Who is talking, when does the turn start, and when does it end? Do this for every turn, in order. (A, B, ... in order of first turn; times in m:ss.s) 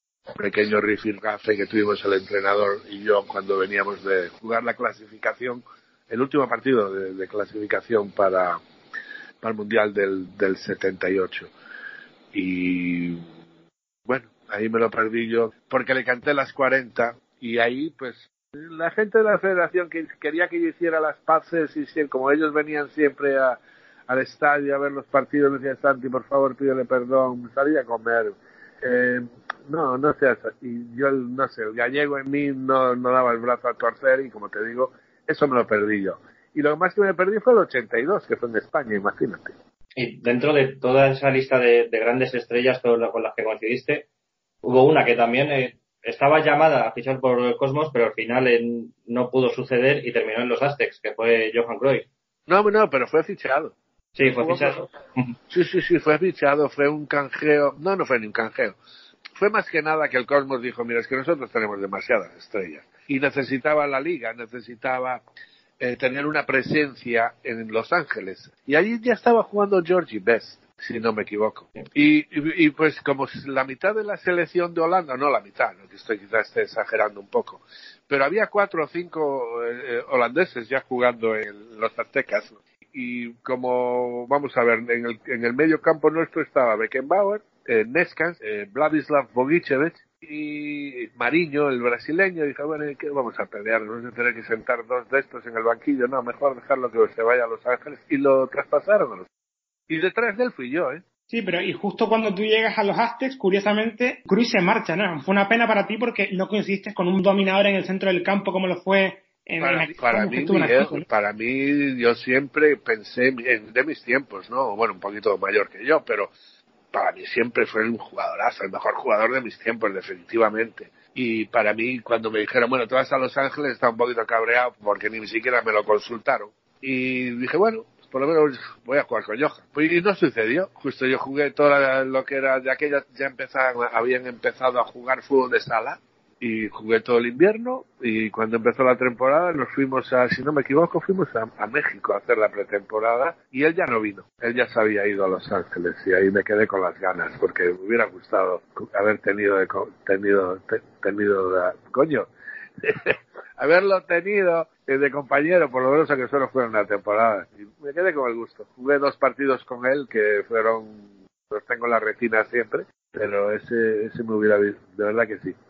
0:00.4-0:08.6 A
0:09.4-0:11.5 A
0:12.3-0:13.2 A
0:14.1-0:39.5 A
0:40.0-0:44.1 B
0:44.6-0:52.1 B
0:52.5-0:54.8 A
0:54.2-0:55.3 B
0:55.5-0:58.8 A
0:59.4-1:05.2 A
1:05.8-1:39.3 A
1:39.9-1:41.0 A
1:41.3-1:51.1 C
1:49.6-1:56.3 A
1:56.9-2:32.3 A
2:32.8-2:45.6 A